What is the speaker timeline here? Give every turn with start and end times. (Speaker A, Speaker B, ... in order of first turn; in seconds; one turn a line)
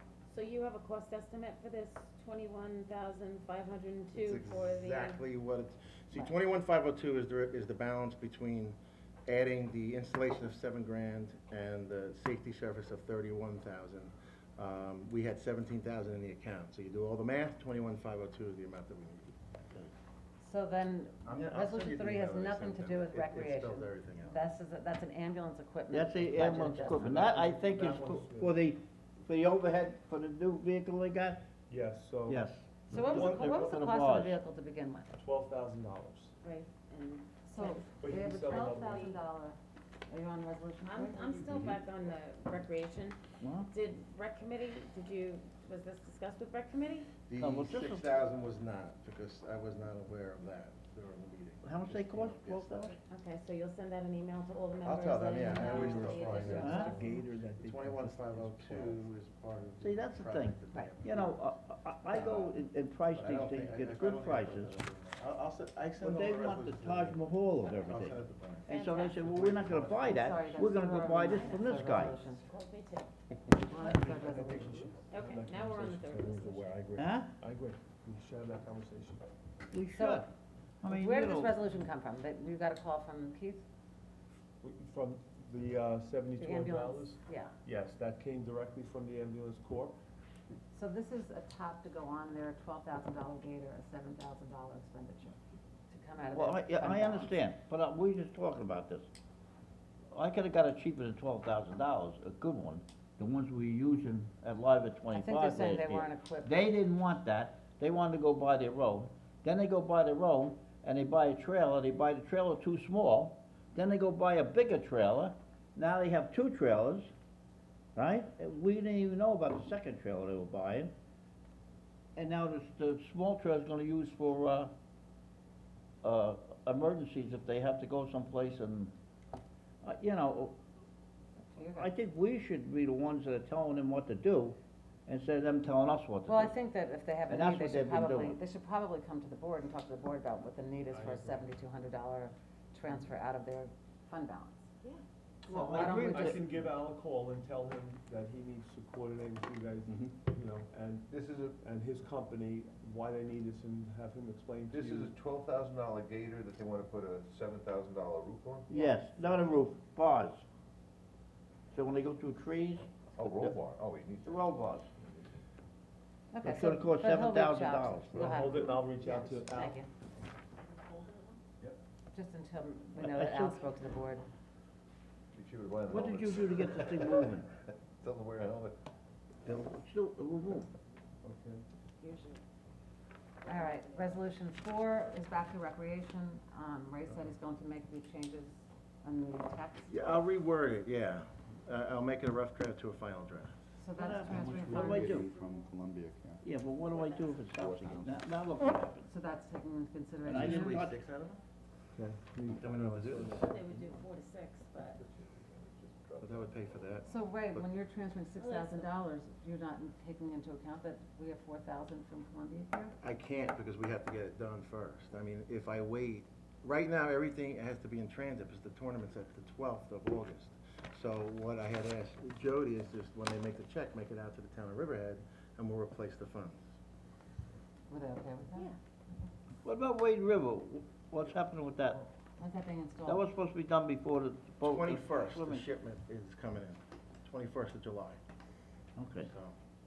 Speaker A: 0.3-5.2
Speaker B: 4.1-19.4
Speaker C: 20.4-27.4
Speaker B: 21.2-24.4
Speaker D: 25.9-31.4
Speaker E: 27.3-28.6
Speaker E: 31.7-32.4
Speaker D: 32.3-34.4
Speaker C: 32.9-35.1
Speaker E: 33.1-33.5
Speaker E: 35.2-36.3
Speaker A: 36.4-37.9
Speaker C: 37.5-39.6
Speaker E: 38.0-39.1
Speaker A: 38.5-39.2
Speaker C: 40.1-41.4
Speaker A: 40.8-43.2
Speaker D: 43.4-43.7
Speaker A: 43.7-47.1
Speaker B: 47.2-53.0
Speaker D: 47.4-48.1
Speaker D: 51.6-52.9
Speaker A: 53.1-57.1
Speaker B: 54.8-57.1
Speaker E: 55.6-59.0
Speaker D: 56.5-56.9
Speaker B: 57.6-61.5
Speaker D: 59.8-64.8
Speaker B: 62.1-62.6
Speaker B: 63.1-70.6
Speaker D: 66.0-72.2
Speaker A: 68.7-69.2
Speaker C: 70.0-72.5
Speaker A: 71.5-73.1
Speaker C: 73.5-74.8
Speaker E: 74.1-79.2
Speaker A: 75.1-76.7
Speaker D: 77.0-77.3
Speaker D: 79.7-80.3
Speaker C: 79.9-80.3
Speaker D: 80.8-81.6
Speaker C: 80.8-83.7
Speaker E: 84.6-89.9
Speaker C: 86.4-87.5
Speaker C: 90.7-95.4
Speaker C: 95.9-97.3
Speaker D: 96.3-99.1
Speaker D: 100.1-117.1
Speaker C: 105.1-106.7
Speaker D: 118.0-120.9
Speaker D: 122.2-124.7
Speaker D: 126.0-128.9
Speaker D: 129.8-130.6
Speaker C: 131.5-131.9
Speaker D: 131.7-136.6
Speaker C: 136.3-144.7
Speaker D: 137.3-138.4
Speaker C: 145.5-146.4
Speaker D: 145.5-146.4
Speaker E: 146.2-151.0
Speaker F: 149.9-150.2
Speaker G: 151.1-151.6
Speaker E: 151.6-154.9
Speaker G: 154.7-158.7
Speaker D: 158.7-160.4
Speaker D: 161.7-163.6
Speaker G: 163.2-165.1
Speaker D: 164.2-164.9
Speaker C: 166.3-169.9
Speaker D: 166.4-168.3
Speaker E: 168.2-169.8
Speaker A: 170.7-171.4
Speaker C: 172.1-174.2
Speaker D: 173.0-173.6
Speaker G: 175.3-178.8
Speaker D: 175.9-177.5
Speaker D: 179.4-180.7
Speaker E: 181.2-181.6
Speaker A: 182.0-182.4
Speaker C: 183.4-190.0
Speaker B: 189.9-193.6
Speaker C: 193.8-195.3
Speaker D: 194.0-195.3
Speaker F: 194.6-196.4
Speaker D: 196.4-199.1
Speaker A: 196.9-197.3
Speaker F: 197.6-198.3
Speaker C: 199.1-200.9
Speaker D: 200.2-201.0
Speaker B: 200.3-201.4
Speaker E: 201.9-203.3
Speaker B: 202.6-203.7
Speaker A: 203.4-205.0
Speaker G: 204.8-207.0
Speaker B: 206.2-207.7
Speaker C: 207.1-212.9
Speaker A: 208.4-208.9
Speaker B: 213.0-226.6
Speaker C: 227.9-228.7
Speaker D: 229.7-232.0
Speaker C: 232.4-233.2
Speaker D: 233.1-235.7
Speaker B: 234.6-238.2
Speaker D: 239.0-239.3
Speaker B: 239.2-239.6